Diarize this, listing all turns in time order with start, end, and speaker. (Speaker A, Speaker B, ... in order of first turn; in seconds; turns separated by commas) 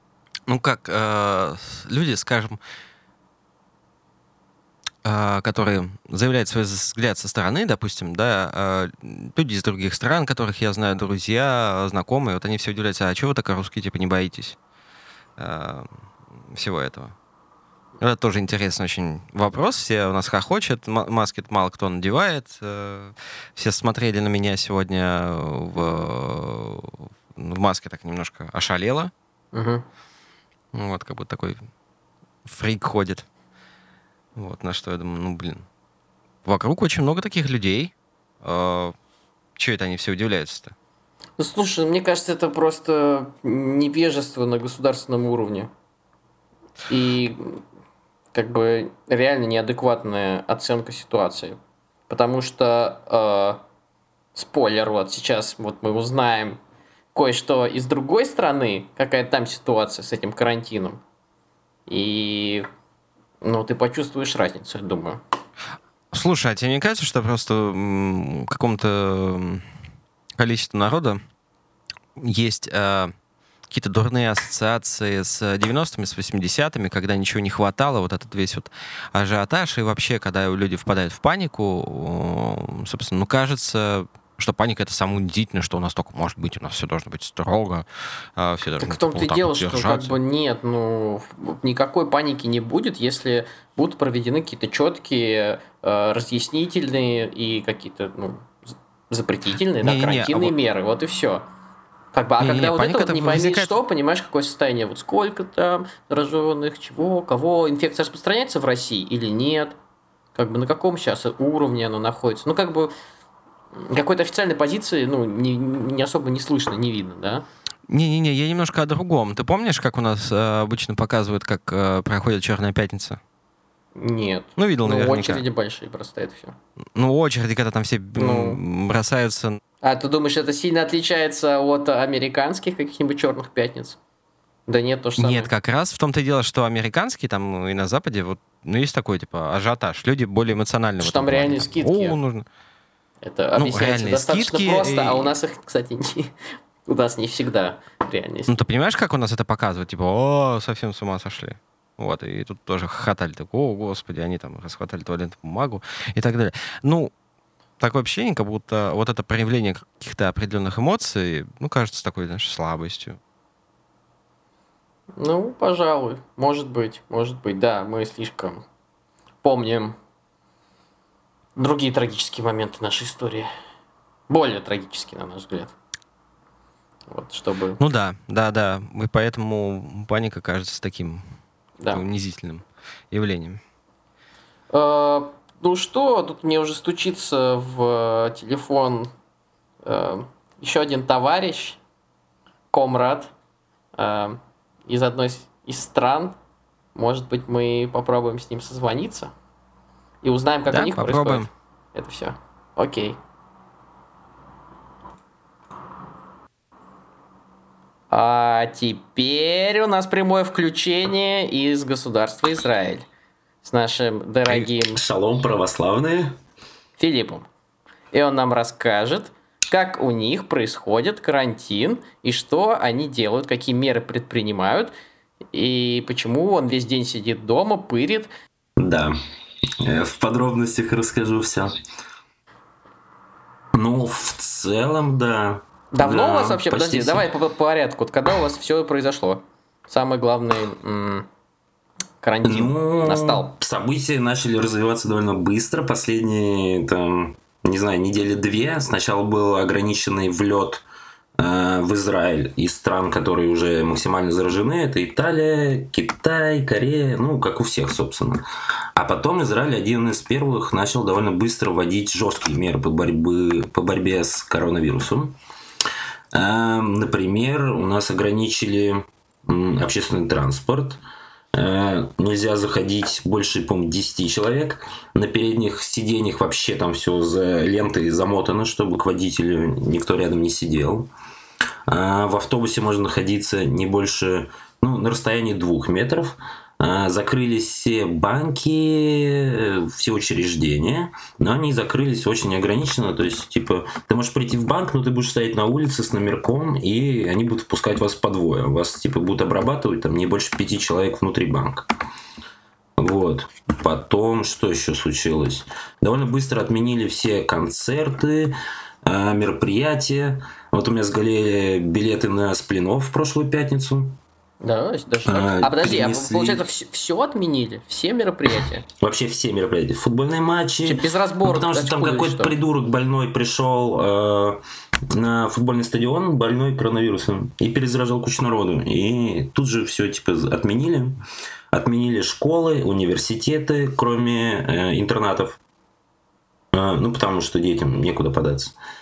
Speaker A: 0.5-2.6, Speaker A: 5.0-14.6, Speaker A: 15.4-15.9, Speaker A: 16.5-17.1, Speaker A: 18.0-29.1, Speaker B: 29.5-29.8, Speaker A: 30.7-31.6, Speaker A: 32.4-33.2, Speaker A: 34.4-35.6, Speaker A: 36.4-38.9, Speaker A: 39.6-40.7, Speaker B: 41.4-45.7, Speaker B: 46.9-47.6, Speaker B: 48.3-51.6, Speaker B: 52.1-53.6, Speaker B: 54.3-56.6, Speaker B: 57.1-61.0, Speaker B: 61.9-62.6, Speaker B: 63.4-65.2, Speaker A: 66.1-69.6, Speaker A: 70.4-71.2, Speaker A: 72.2-73.1, Speaker A: 73.7-90.2, Speaker B: 88.8-101.5, Speaker A: 99.8-100.5, Speaker B: 102.1-109.8, Speaker A: 102.4-103.8, Speaker B: 110.3-112.9, Speaker B: 113.7-117.4, Speaker A: 117.9-123.2, Speaker B: 124.0-126.5, Speaker A: 124.6-125.4, Speaker A: 126.9-129.6, Speaker B: 128.2-128.6, Speaker B: 129.8-134.0, Speaker B: 134.7-135.5, Speaker A: 135.2-142.4, Speaker B: 141.0-142.2, Speaker B: 143.2-146.3, Speaker A: 143.6-145.4, Speaker B: 146.8-148.5, Speaker A: 148.5-157.1, Speaker A: 157.8-163.2, Speaker B: 165.2-168.6, Speaker B: 169.4-169.9, Speaker B: 171.6-173.5, Speaker B: 174.3-175.7, Speaker B: 177.1-177.8, Speaker A: 177.8-181.2, Speaker A: 181.9-183.6, Speaker B: 184.7-189.1, Speaker B: 189.8-191.8, Speaker B: 192.7-193.3, Speaker B: 193.9-196.4, Speaker B: 196.9-199.3, Speaker B: 200.2-203.2, Speaker A: 200.7-201.5, Speaker B: 208.1-213.1, Speaker B: 213.6-215.0, Speaker C: 214.5-216.3, Speaker B: 217.0-217.5, Speaker B: 218.1-224.9, Speaker B: 225.5-228.3, Speaker C: 228.8-229.2, Speaker C: 229.8-231.7, Speaker C: 233.7-237.3, Speaker B: 235.9-241.3, Speaker B: 242.2-243.5, Speaker C: 242.4-250.8, Speaker C: 251.4-258.4, Speaker C: 258.9-265.4, Speaker C: 266.3-271.0, Speaker C: 271.5-281.1, Speaker C: 281.9-301.9, Speaker C: 303.0-314.2, Speaker B: 314.6-318.8, Speaker C: 315.3-316.6, Speaker C: 319.0-331.2, Speaker B: 320.8-322.6, Speaker C: 331.7-335.6, Speaker C: 336.7-338.7